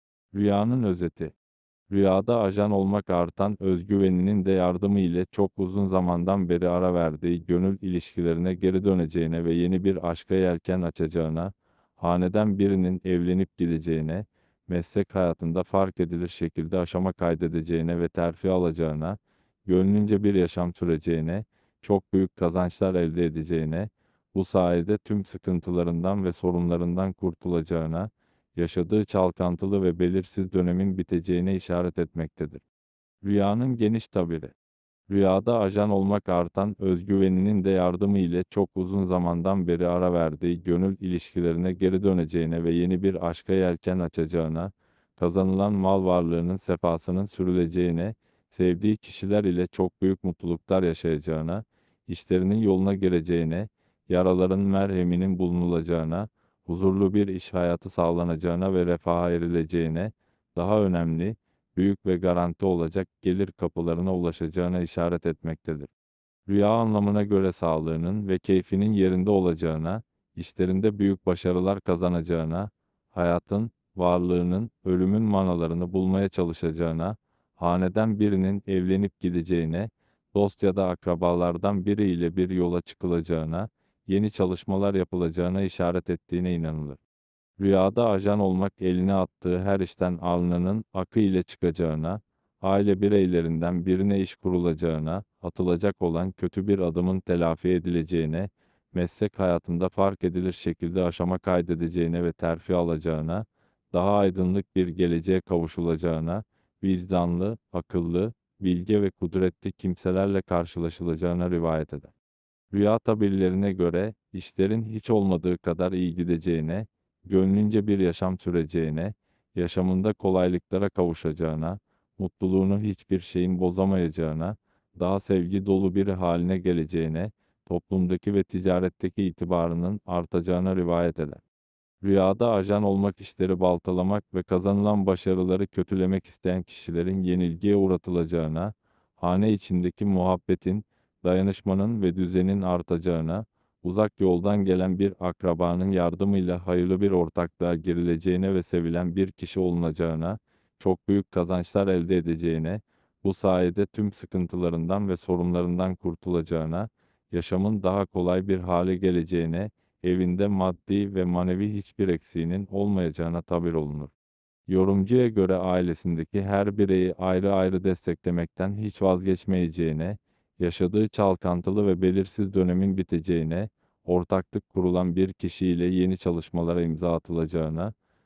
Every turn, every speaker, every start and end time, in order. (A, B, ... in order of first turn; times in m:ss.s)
0:00.3-0:01.3 A
0:01.9-0:32.6 A
0:33.2-0:34.5 A
0:35.1-1:05.9 A
1:06.5-1:27.0 A
1:27.6-1:52.1 A
1:52.7-2:11.4 A
2:12.0-2:44.1 A
2:44.7-2:57.9 A